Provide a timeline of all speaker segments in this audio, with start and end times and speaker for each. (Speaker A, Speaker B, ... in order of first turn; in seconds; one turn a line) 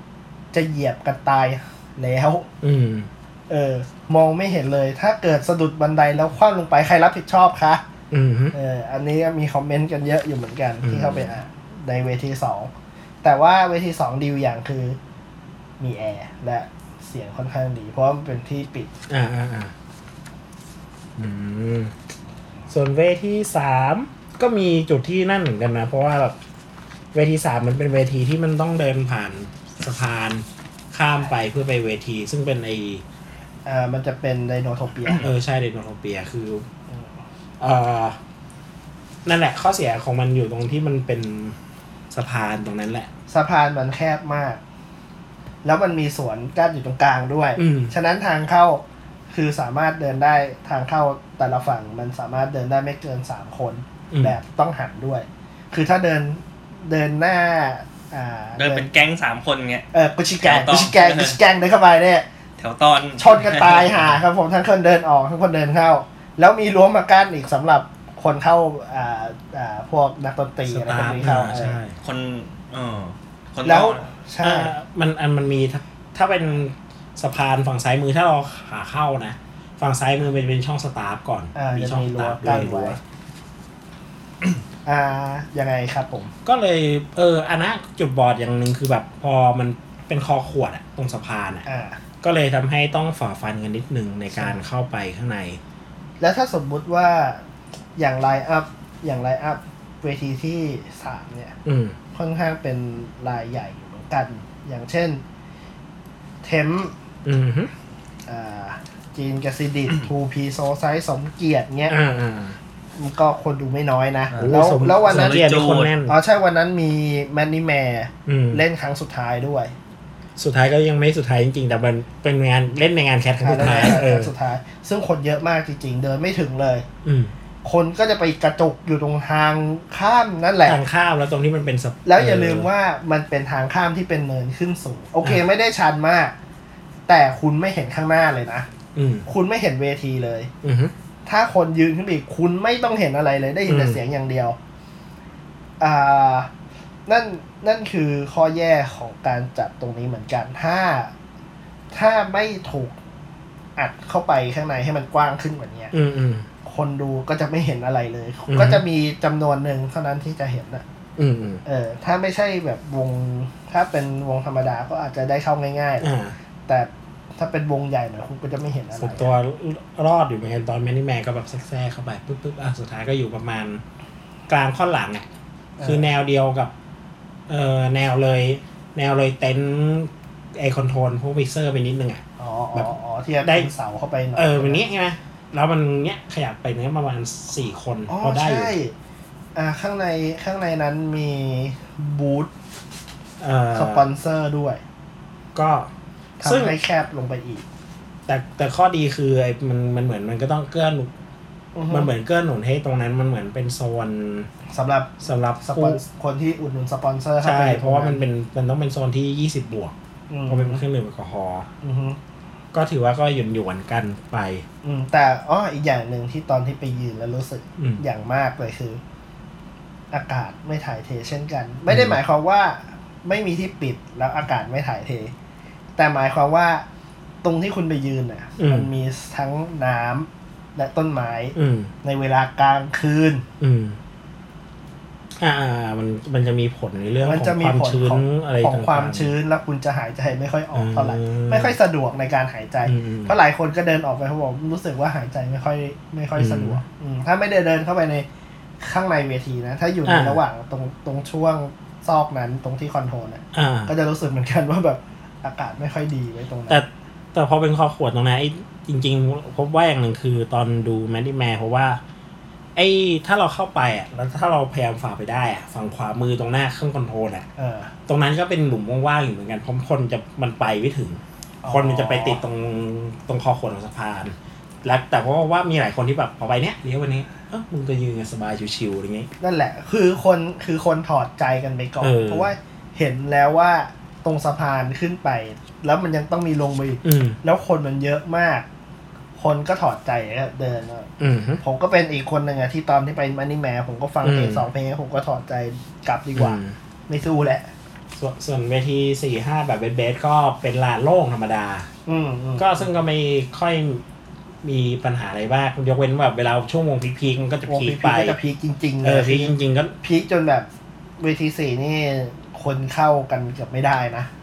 Speaker A: 0.5-2.5
Speaker B: 2.6-3.1
Speaker A: 3.5-7.8
Speaker B: 8.1-8.5
Speaker A: 8.5-12.7
Speaker B: 10.8-11.3
Speaker A: 13.2-15.0
Speaker A: 15.8-18.9
Speaker B: 19.1-19.7
Speaker B: 21.2-21.9
Speaker B: 22.7-26.4
Speaker B: 27.1-33.0
Speaker A: 33.6-35.2
Speaker B: 35.1-36.6
Speaker B: 37.6-38.2
Speaker B: 39.2-41.5
Speaker B: 42.1-43.1
Speaker A: 43.3-44.6
Speaker A: 45.6-58.9
Speaker B: 47.6-47.9
Speaker B: 54.1-54.4
Speaker C: 58.6-59.8
Speaker A: 59.9-62.2
Speaker C: 60.4-61.4
Speaker C: 62.6-64.0
Speaker A: 63.2-71.8
Speaker B: 70.7-72.0
Speaker C: 72.0-74.0
Speaker A: 73.6-74.7
Speaker B: 74.4-83.0
Speaker A: 81.5-83.0
Speaker A: 84.8-86.3
Speaker B: 86.4-91.6
Speaker A: 91.7-92.0
Speaker B: 92.2-95.6
Speaker A: 96.2-97.4
Speaker A: 98.0-101.5
Speaker B: 101.6-102.0
Speaker A: 102.1-105.2
Speaker A: 106.4-106.9
Speaker B: 107.2-107.7
Speaker A: 108.3-112.0
Speaker B: 111.9-112.6
Speaker A: 113.0-119.7
Speaker C: 114.3-115.9
Speaker B: 114.4-116.2
Speaker B: 118.2-118.6
Speaker B: 120.4-124.3
Speaker A: 123.4-126.8
Speaker B: 127.0-127.3
Speaker A: 127.6-130.8
Speaker B: 130.6-132.7
Speaker A: 132.0-136.3
Speaker A: 137.1-138.7
Speaker B: 138.9-139.3
Speaker A: 139.2-140.5
Speaker B: 140.6-140.9
Speaker A: 141.2-144.6
Speaker B: 143.7-144.0
Speaker A: 145.8-146.5
Speaker A: 147.1-151.1
Speaker A: 151.9-153.0
Speaker A: 153.8-155.9
Speaker B: 155.9-156.5
Speaker A: 156.6-160.8
Speaker B: 158.5-158.8
Speaker B: 161.2-161.6
Speaker A: 161.6-166.1
Speaker B: 166.0-166.3
Speaker A: 166.7-169.3
Speaker B: 168.9-173.8
Speaker B: 174.5-175.2
Speaker A: 175.8-176.1
Speaker B: 175.8-176.7
Speaker B: 177.5-182.2
Speaker A: 182.4-184.8
Speaker B: 183.4-183.7
Speaker B: 184.3-188.7
Speaker A: 188.1-188.9
Speaker A: 189.5-192.5
Speaker B: 193.4-194.1
Speaker A: 193.7-194.8
Speaker B: 195.5-195.9
Speaker A: 196.4-197.6
Speaker B: 196.4-196.8
Speaker B: 198.3-201.1
Speaker A: 201.7-202.1
Speaker B: 201.9-204.5
Speaker A: 204.7-208.2
Speaker B: 205.2-206.0
Speaker B: 207.4-209.9
Speaker A: 210.3-210.8
Speaker B: 210.5-211.7
Speaker A: 211.8-212.2
Speaker B: 212.7-214.7
Speaker A: 214.8-219.0
Speaker A: 220.1-225.3
Speaker B: 221.9-222.2
Speaker A: 226.0-226.8
Speaker A: 227.4-233.4
Speaker B: 228.6-228.9
Speaker B: 231.6-231.9
Speaker B: 233.6-234.0
Speaker B: 235.4-239.3
Speaker A: 237.2-248.2
Speaker B: 240.7-241.7
Speaker B: 242.8-243.3
Speaker B: 246.3-246.8
Speaker A: 248.8-256.8
Speaker B: 250.0-250.4
Speaker B: 253.5-253.9
Speaker B: 256.7-262.0
Speaker B: 262.8-267.5
Speaker A: 267.6-267.9
Speaker B: 268.1-279.3
Speaker A: 271.6-272.4
Speaker A: 279.4-288.6
Speaker B: 282.0-282.5
Speaker B: 287.0-287.4
Speaker A: 289.4-291.1
Speaker B: 291.2-291.6
Speaker A: 291.6-297.7
Speaker B: 294.2-294.7
Speaker B: 296.4-296.8
Speaker B: 298.1-301.9
Speaker A: 302.1-302.9
Speaker B: 302.6-304.0
Speaker B: 304.6-308.4
Speaker A: 307.7-310.7
Speaker B: 309.0-309.9
Speaker A: 311.2-314.3